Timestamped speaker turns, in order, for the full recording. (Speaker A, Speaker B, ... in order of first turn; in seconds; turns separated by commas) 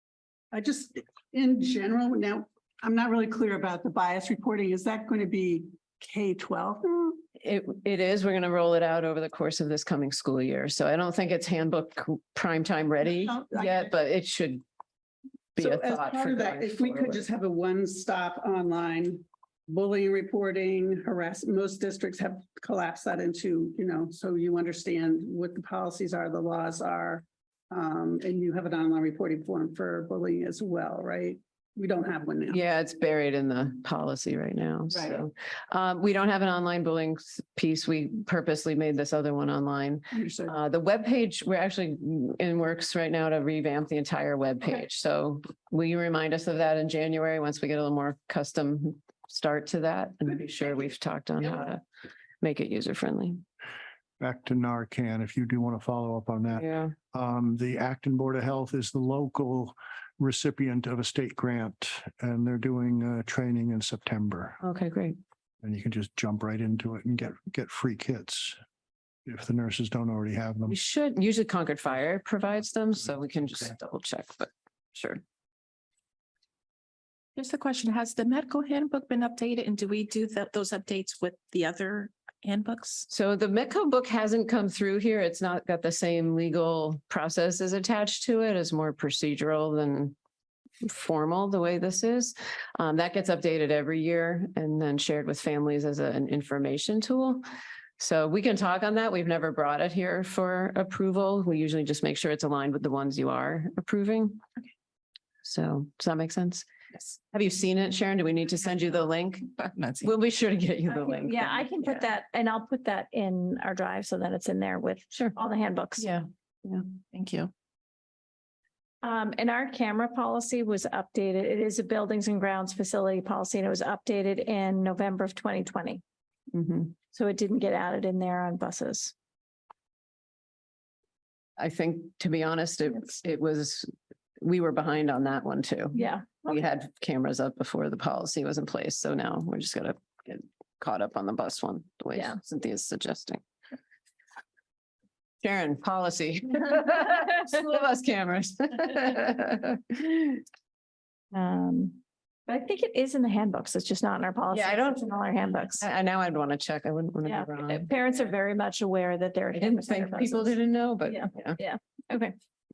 Speaker A: 0.5-7.2, Speaker B: 7.4-14.6, Speaker A: 13.0-13.9, Speaker B: 15.6-17.2, Speaker A: 15.6-32.6, Speaker B: 32.5-51.8, Speaker A: 34.9-35.2, Speaker A: 40.1-40.5, Speaker B: 52.4-53.4, Speaker C: 54.2-64.6, Speaker B: 56.6-57.0, Speaker B: 64.6-65.2, Speaker C: 65.6-68.6, Speaker C: 69.3-70.8, Speaker B: 70.7-75.2, Speaker D: 77.4-83.1, Speaker B: 83.1-90.2, Speaker B: 90.8-97.4, Speaker B: 98.0-104.4, Speaker B: 105.4-106.7, Speaker B: 107.3-112.0, Speaker D: 109.6-110.1, Speaker E: 110.9-116.1, Speaker B: 116.0-116.8, Speaker D: 117.1-117.5, Speaker E: 119.0-126.0, Speaker B: 126.5-127.0, Speaker E: 127.1-129.1, Speaker B: 131.6-143.4, Speaker E: 135.9-136.6, Speaker B: 145.4-150.4, Speaker E: 151.3-155.8, Speaker B: 154.5-155.2, Speaker B: 155.8-157.9, Speaker E: 157.2-162.4, Speaker B: 159.5-161.6